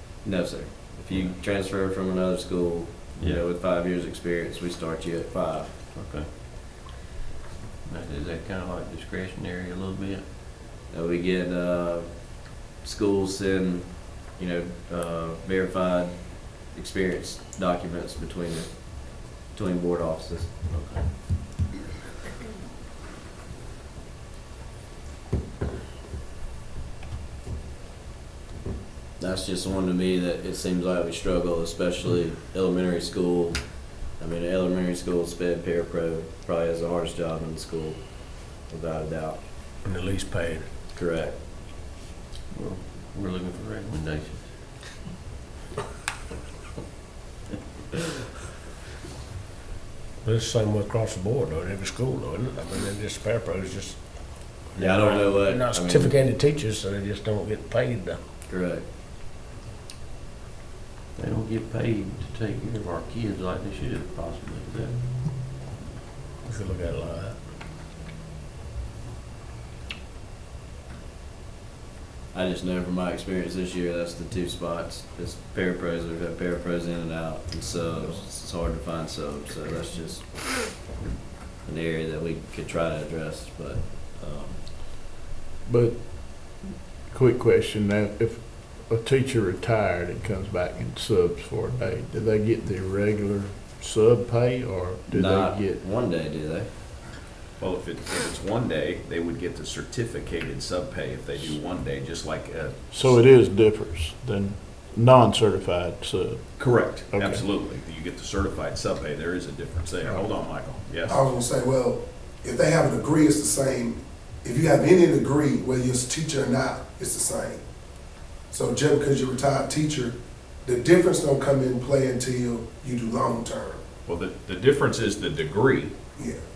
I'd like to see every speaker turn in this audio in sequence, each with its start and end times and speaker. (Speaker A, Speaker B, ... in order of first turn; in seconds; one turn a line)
Speaker A: 0.2-6.0
Speaker B: 5.9-6.3
Speaker B: 7.9-10.3
Speaker A: 10.9-20.7
Speaker B: 20.7-21.1
Speaker A: 29.2-39.4
Speaker C: 39.8-40.7
Speaker A: 40.9-41.4
Speaker B: 42.5-44.5
Speaker C: 50.2-58.2
Speaker A: 54.8-56.2
Speaker A: 58.5-58.9
Speaker B: 61.2-65.0
Speaker C: 66.5-67.4
Speaker A: 72.3-80.7
Speaker A: 81.6-84.7
Speaker D: 85.7-95.8
Speaker A: 95.1-96.7
Speaker E: 97.6-103.2
Speaker D: 102.9-106.5
Speaker E: 106.6-111.2
Speaker D: 107.1-107.5
Speaker F: 111.1-117.6
Speaker F: 118.5-123.8
Speaker E: 124.1-125.9